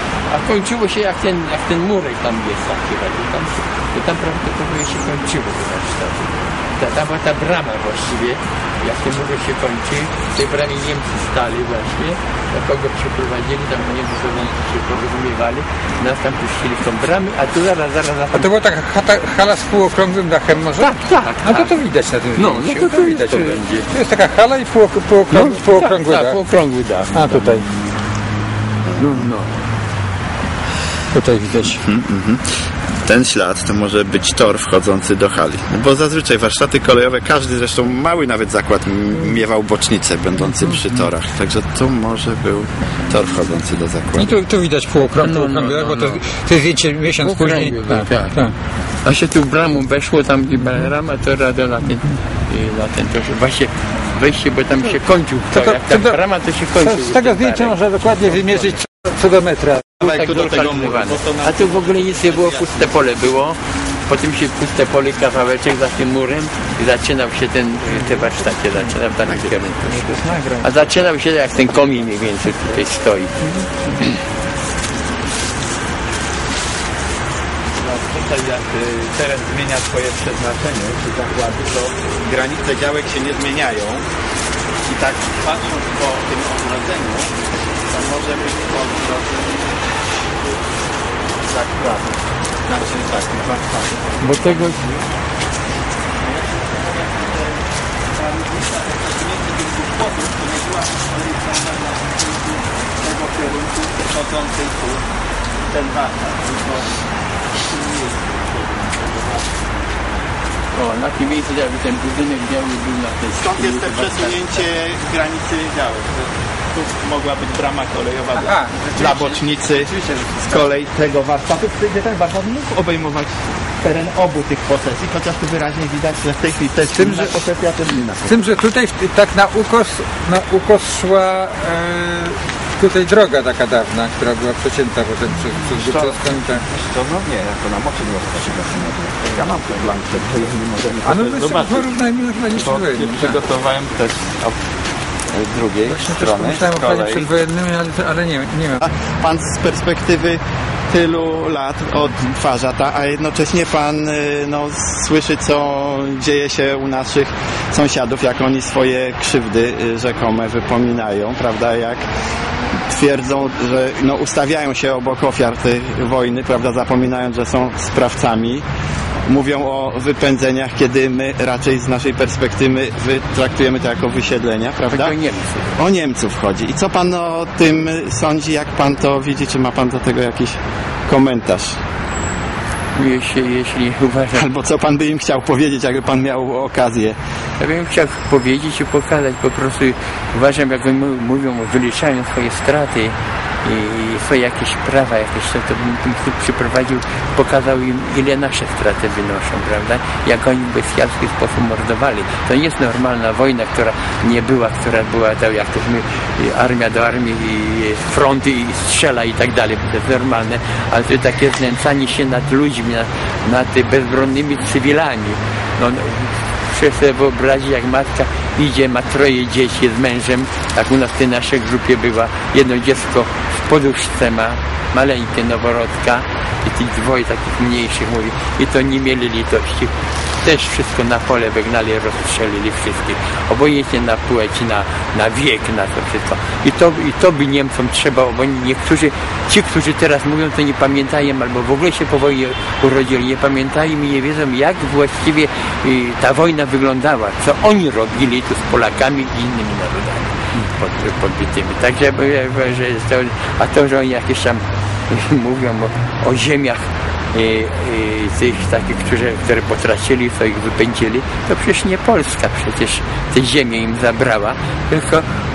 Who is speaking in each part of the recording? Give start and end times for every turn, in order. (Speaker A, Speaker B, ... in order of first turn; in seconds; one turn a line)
Speaker A: 0.3-18.5
Speaker B: 18.3-26.4
Speaker A: 20.8-21.8
Speaker A: 22.3-23.9
Speaker A: 25.3-27.4
Speaker B: 27.1-27.6
Speaker A: 29.0-29.5
Speaker B: 31.1-31.8
Speaker C: 31.8-32.4
Speaker C: 33.0-44.4
Speaker B: 44.2-48.5
Speaker A: 45.2-46.2
Speaker A: 47.2-48.4
Speaker A: 49.0-57.8
Speaker B: 55.5-56.2
Speaker B: 56.7-59.9
Speaker C: 60.0-63.0
Speaker A: 60.0-74.2
Speaker B: 70.1-70.5
Speaker C: 77.8-84.0
Speaker C: 84.8-87.3
Speaker C: 87.9-89.9
Speaker C: 91.4-95.0
Speaker A: 94.2-94.8
Speaker C: 96.2-97.6
Speaker C: 98.1-105.0
Speaker C: 105.7-109.7
Speaker A: 110.7-114.7
Speaker C: 113.4-128.4
Speaker B: 118.4-118.9
Speaker B: 126.9-127.4
Speaker B: 128.2-136.6
Speaker C: 135.8-141.9
Speaker B: 141.0-143.4
Speaker C: 142.6-144.5
Speaker C: 145.3-147.2
Speaker B: 145.9-148.8
Speaker C: 148.8-162.0
Speaker C: 162.9-168.6
Speaker C: 169.3-175.2
Speaker A: 174.9-175.7
Speaker C: 175.8-181.8
Speaker A: 182.9-184.4
Speaker C: 184.3-187.2
Speaker A: 187.6-265.3